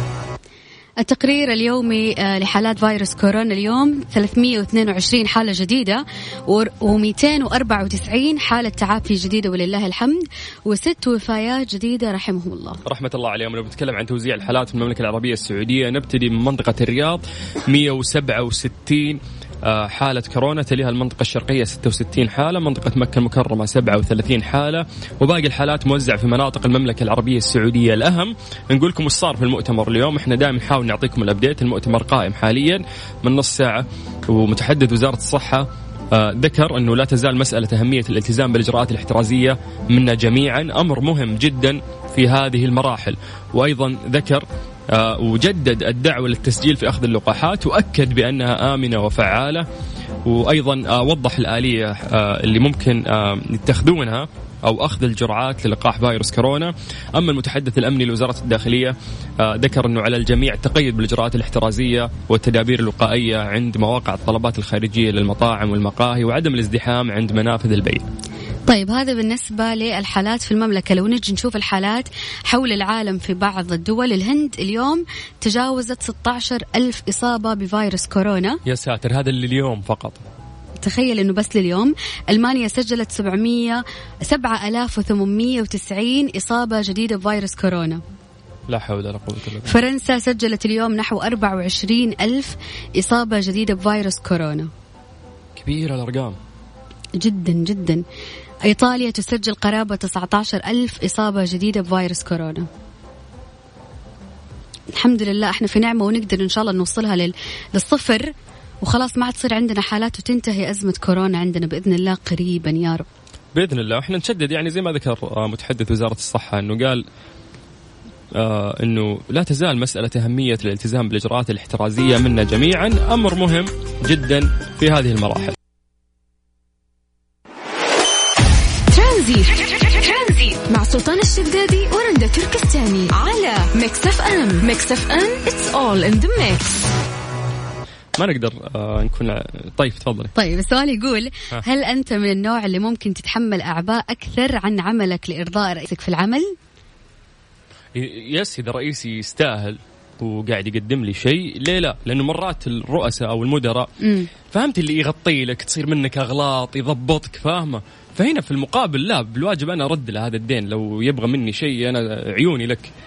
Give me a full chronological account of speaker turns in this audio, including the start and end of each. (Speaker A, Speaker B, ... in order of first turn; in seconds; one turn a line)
Speaker A: 1.0-12.8
Speaker B: 12.8-49.6
Speaker B: 50.2-68.0
Speaker A: 68.7-78.6
Speaker B: 78.7-80.2
Speaker A: 80.8-88.0
Speaker B: 88.7-89.8
Speaker A: 89.6-94.7
Speaker B: 95.5-96.3
Speaker A: 97.2-98.0
Speaker A: 98.7-102.7
Speaker A: 104.9-113.0
Speaker B: 113.5-117.0
Speaker B: 118.3-125.5
Speaker C: 128.9-136.9
Speaker B: 138.2-140.3
Speaker A: 140.3-146.5
Speaker B: 147.9-153.9
Speaker A: 154.0-154.3
Speaker B: 154.5-162.9